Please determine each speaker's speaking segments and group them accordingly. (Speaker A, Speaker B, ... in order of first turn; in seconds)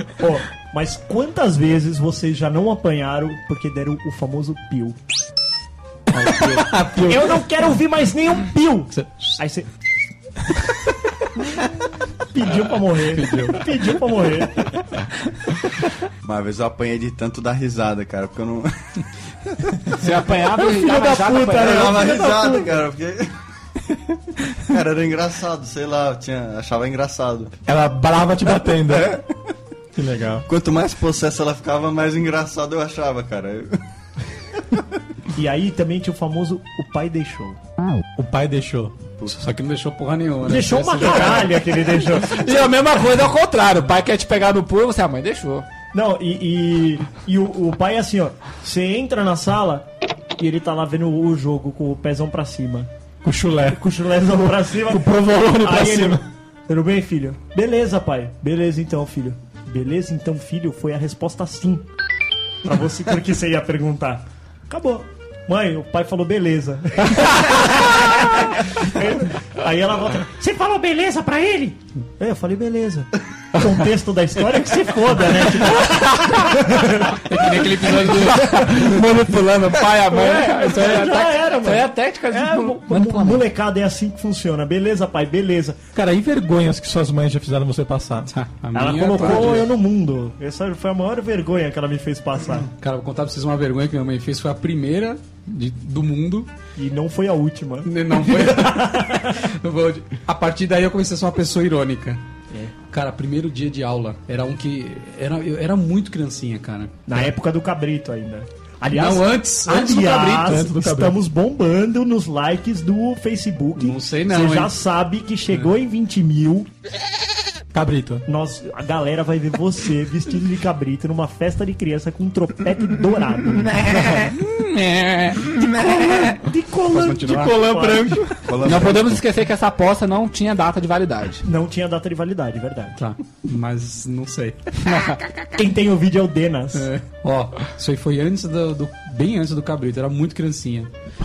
Speaker A: 0.2-5.0, 7.0-9.7, 12.3-14.8, 20.8-22.7, 35.3-37.6, 40.4-42.4, 45.9-49.9, 50.4-52.9, 53.7-61.8, 62.6-77.4, 80.1-85.8, 88.7-92.7, 96.8-99.4, 107.1-116.7, 118.2-124.2, 125.8-128.2, 131.4-133.0, 135.6-136.9
Speaker B: 6.2-7.5, 27.7-29.2, 29.9-30.4, 38.1-39.0, 53.2-56.2, 78.7-79.7, 85.9-88.3, 110.4-111.2, 117.7-118.2, 123.5-124.4, 125.3-128.5
Speaker C: 9.0-9.3, 13.1-13.6, 39.3-41.6, 77.1-78.6, 88.3-89.7, 92.8-96.5, 97.8-102.2, 102.9-107.3, 108.9-110.6, 113.8-114.7, 127.0-127.5, 133.0-135.1, 136.7-140.9
Speaker D: 16.2-18.7, 21.6-23.3, 24.7-27.5, 30.5-33.7, 128.4-129.2
Speaker E: 19.9-21.9, 42.2-45.6, 78.6-83.4, 124.6-125.4, 128.6-131.4, 134.8-135.4